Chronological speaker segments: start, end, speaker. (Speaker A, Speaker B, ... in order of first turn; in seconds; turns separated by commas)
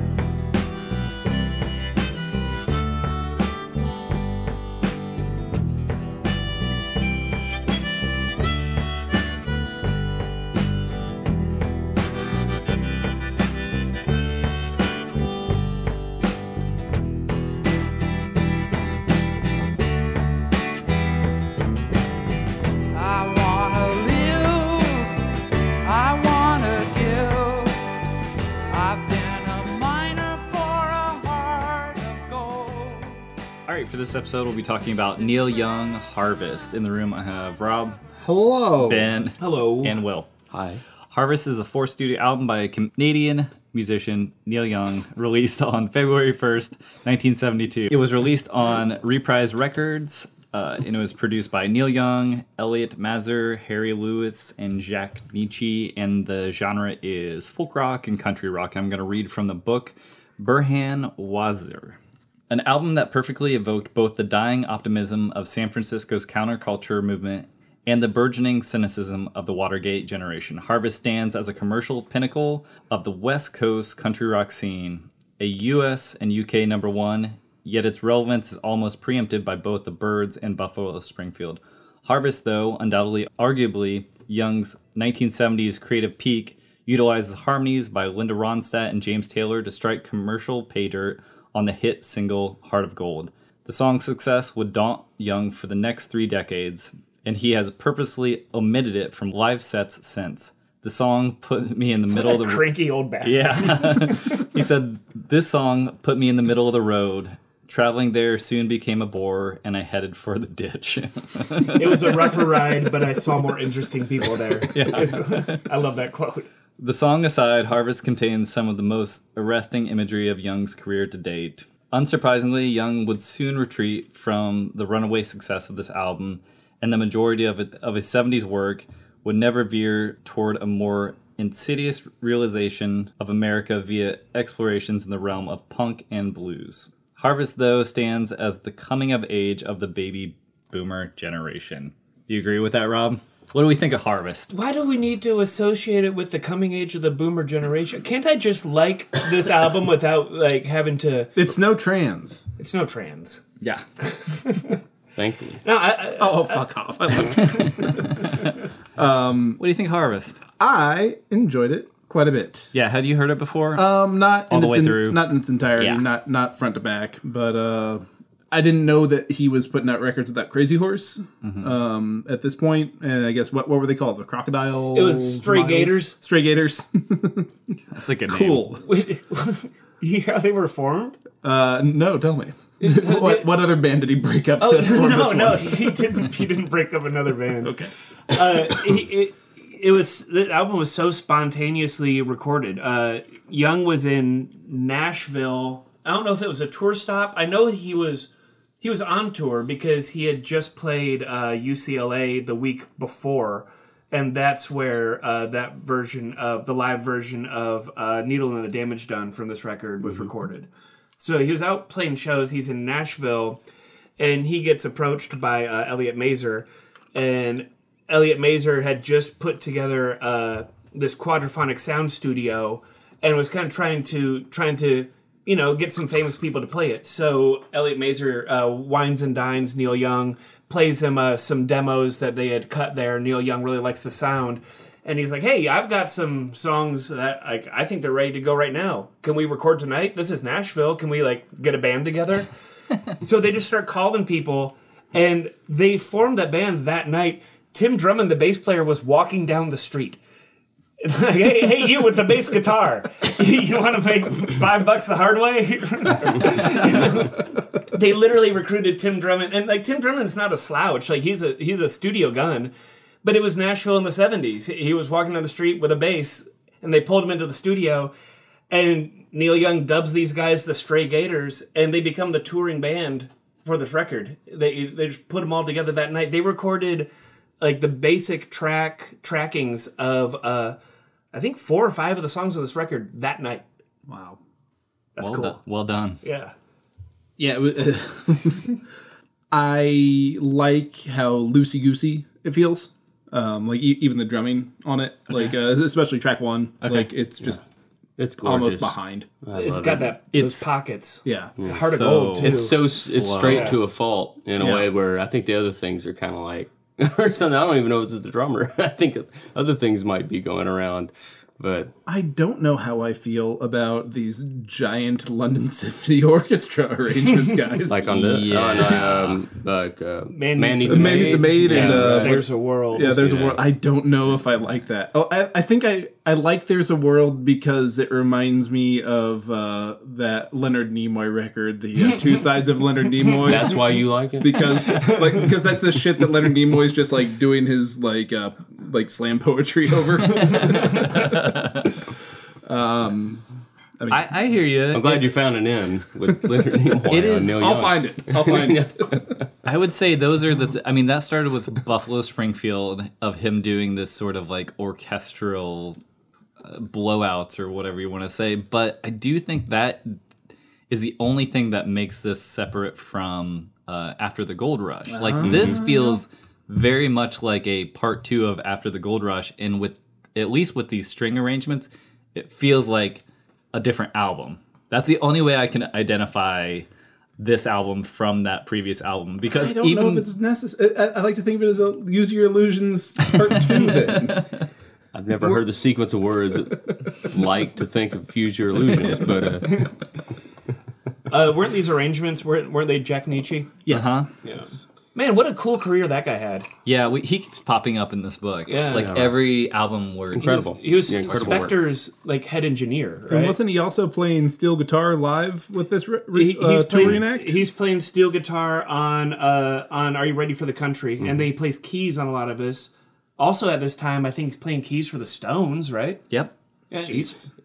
Speaker A: 22.9-25.2, Speaker A: 25.8-27.7, Speaker A: 28.7-33.2, Speaker B: 33.7-38.0, Speaker C: 38.2-39.1, Speaker B: 38.8-40.3, Speaker D: 39.4-40.0, Speaker E: 40.5-40.8, Speaker B: 41.1-62.0, Speaker B: 62.5-102.7, Speaker D: 102.1-104.4, Speaker B: 103.2-112.3, Speaker D: 111.7-116.5, Speaker B: 114.7-115.6, Speaker B: 116.8-144.5, Speaker D: 144.5-151.3, Speaker C: 151.3-152.4, Speaker D: 152.6-153.4, Speaker D: 154.0-154.8, Speaker E: 155.2-155.6, Speaker D: 155.6-156.6, Speaker C: 156.2-158.1, Speaker D: 157.3-158.0, Speaker B: 157.6-158.4, Speaker C: 158.9-159.6, Speaker B: 159.6-160.4, Speaker C: 160.6-162.7, Speaker B: 162.7-163.9, Speaker C: 163.7-177.7, Speaker B: 164.5-165.2, Speaker B: 165.8-166.0, Speaker B: 171.4-171.7, Speaker D: 174.9-176.2, Speaker B: 177.9-178.8, Speaker C: 178.3-178.8, Speaker D: 178.6-181.2, Speaker C: 181.4-186.2, Speaker D: 182.8-183.5, Speaker D: 184.6-213.6, Speaker C: 187.6-188.9, Speaker D: 214.2-242.5, Speaker D: 243.1-250.2, Speaker D: 251.0-262.7, Speaker D: 263.2-268.1, Speaker D: 268.7-277.1, Speaker D: 277.6-280.8, Speaker D: 281.3-283.6, Speaker C: 284.1-284.4, Speaker D: 285.1-285.6, Speaker B: 285.2-286.2, Speaker D: 286.2-286.5, Speaker C: 287.4-288.7, Speaker C: 289.5-297.6, Speaker B: 295.3-295.6, Speaker B: 296.8-297.1, Speaker E: 298.2-300.1, Speaker C: 298.4-299.3, Speaker D: 299.5-302.8, Speaker B: 300.3-300.7, Speaker C: 301.2-301.5, Speaker B: 301.7-303.8, Speaker E: 302.4-311.9, Speaker D: 303.4-303.8, Speaker C: 304.6-304.9, Speaker C: 312.1-318.1, Speaker E: 317.9-322.4, Speaker B: 318.1-319.4, Speaker D: 320.3-323.2, Speaker C: 320.8-333.8, Speaker E: 323.0-323.6, Speaker D: 332.0-332.5, Speaker D: 333.2-333.6, Speaker E: 333.4-334.7, Speaker C: 334.4-341.6, Speaker D: 334.6-335.5, Speaker B: 340.5-341.8, Speaker C: 342.6-343.4, Speaker C: 344.0-344.3, Speaker B: 344.1-345.3, Speaker E: 344.9-349.4, Speaker B: 347.1-347.7, Speaker C: 347.4-349.3, Speaker B: 349.6-356.0, Speaker B: 356.6-360.2, Speaker B: 360.9-376.9, Speaker C: 365.1-366.2, Speaker E: 365.4-365.8, Speaker B: 377.4-380.3, Speaker C: 379.5-384.4, Speaker E: 385.1-389.9, Speaker D: 391.3-393.8, Speaker C: 393.8-394.8, Speaker B: 393.9-394.3, Speaker D: 394.4-396.7, Speaker B: 396.8-400.7, Speaker D: 398.7-399.2, Speaker E: 398.9-399.4, Speaker E: 400.3-401.7, Speaker D: 400.4-403.6, Speaker C: 403.3-407.6, Speaker D: 406.3-416.2, Speaker D: 416.9-417.5